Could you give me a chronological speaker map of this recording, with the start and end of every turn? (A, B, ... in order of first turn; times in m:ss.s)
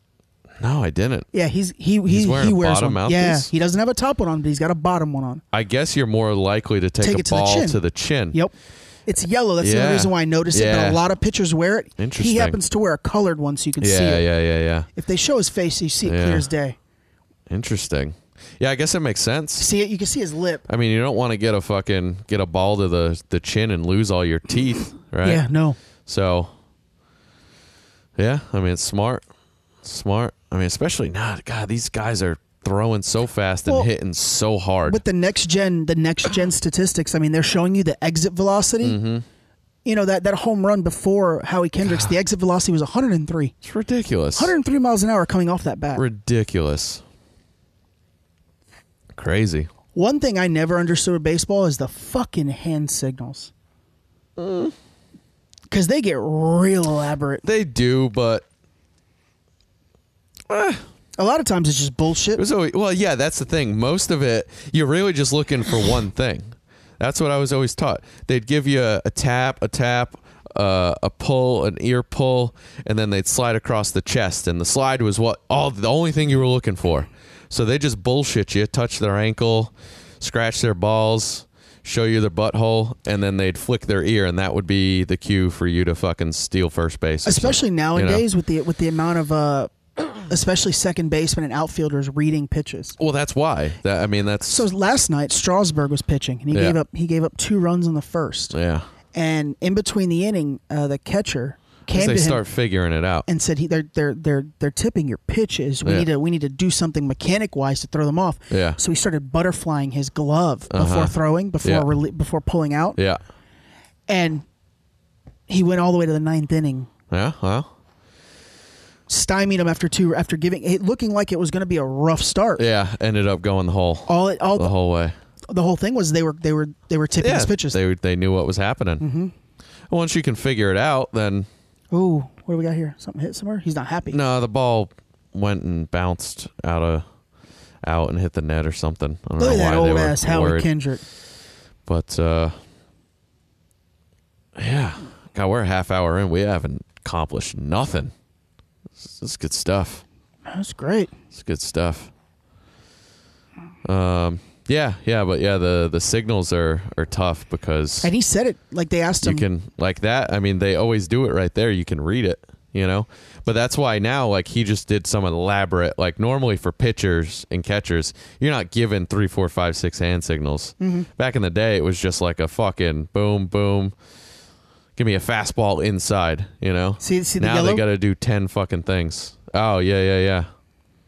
0:00.6-0:01.3 A
0:01.3-0:05.4 B
0:02.0-0:03.5 A
0:05.5-0:08.4 A
0:07.0-0:07.8 B
0:09.1-0:14.2 B
0:09.6-0:11.0 A
0:12.0-0:12.6 A
0:13.8-0:14.9 A
0:14.9-0:16.8 B
0:16.0-0:16.5 A
0:17.5-0:19.7 A
0:19.6-0:20.6 B
0:20.7-0:25.4 A
0:25.2-0:25.8 B
0:26.0-0:26.5 A
0:28.2-0:29.2 A
0:29.8-0:35.0 A
0:34.8-0:39.0 B
0:38.8-0:39.2 A
0:39.8-0:43.5 B
0:41.8-0:42.1 A
0:43.6-0:44.5 A
0:44.3-0:46.0 B
0:45.9-0:47.0 A
0:49.1-0:49.7 A
0:49.9-0:53.5 B
0:54.4-0:54.7 A
0:55.7-0:57.4 B
0:57.4-0:58.4 A
1:00.5-1:00.8 A
1:01.2-1:02.4 B
1:02.3-1:28.2 A
1:27.2-1:33.0 B
1:33.0-1:34.7 A
1:34.4-1:38.6 B
1:36.5-1:36.8 A
1:38.5-1:38.9 A
1:39.1-1:42.4 B
1:41.9-1:43.2 A
1:43.3-1:53.0 B
1:48.5-1:48.8 A
1:50.7-1:51.9 A
1:54.1-1:54.4 B
1:55.5-1:56.9 B
1:57.1-1:57.7 A
1:59.1-2:02.6 B
2:02.6-2:05.1 A
2:04.1-2:04.7 B
2:05.5-2:07.8 B
2:07.2-2:09.0 A
2:09.0-2:09.3 B
2:09.9-2:11.5 A
2:11.9-2:14.2 B
2:14.1-2:17.0 A
2:17.8-2:20.7 A
2:19.4-2:21.0 B
2:21.8-2:22.6 A
2:24.6-2:28.1 A
2:29.0-2:30.0 A
2:30.5-2:31.1 B
2:31.3-2:32.1 A
2:33.8-2:38.1 A
2:38.0-2:39.4 B
2:39.2-2:53.9 A
2:50.8-2:51.1 B
2:55.0-3:00.5 A
2:57.0-2:57.8 B